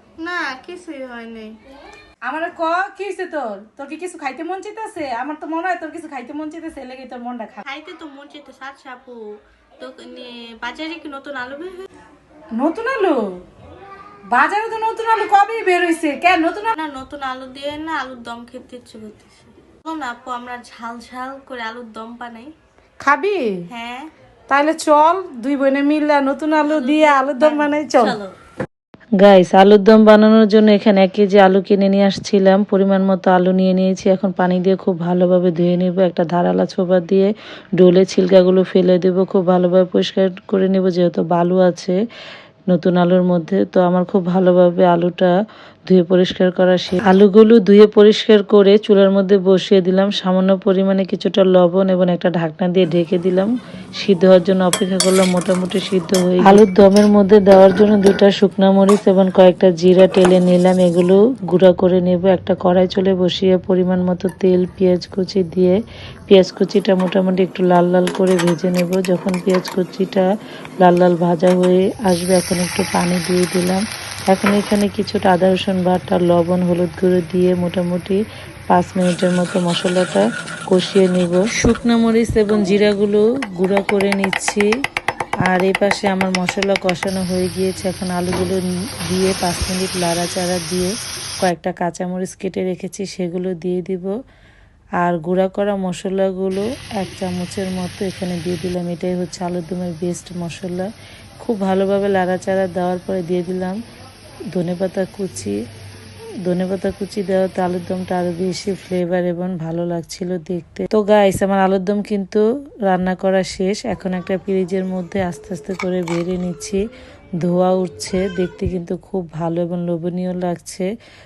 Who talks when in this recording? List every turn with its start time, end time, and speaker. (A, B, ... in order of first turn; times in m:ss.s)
0:00.2-0:01.5 A
0:02.2-0:07.6 B
0:07.6-0:09.2 A
0:09.8-0:11.9 A
0:12.5-0:13.2 B
0:14.3-0:16.7 B
0:16.7-0:22.5 A
0:23.0-0:23.6 B
0:23.7-0:24.1 A
0:24.5-0:28.2 B
0:26.6-0:28.3 A
0:29.2-0:42.0 C
0:42.7-0:45.3 C
0:45.9-1:05.8 C
1:06.3-1:10.2 C
1:10.8-1:18.2 C
1:18.7-1:24.6 C
1:25.4-1:34.1 C
1:35.0-1:40.9 C
1:41.4-1:43.8 C
1:44.5-1:45.5 C
1:46.4-1:56.8 C
1:57.4-2:00.9 C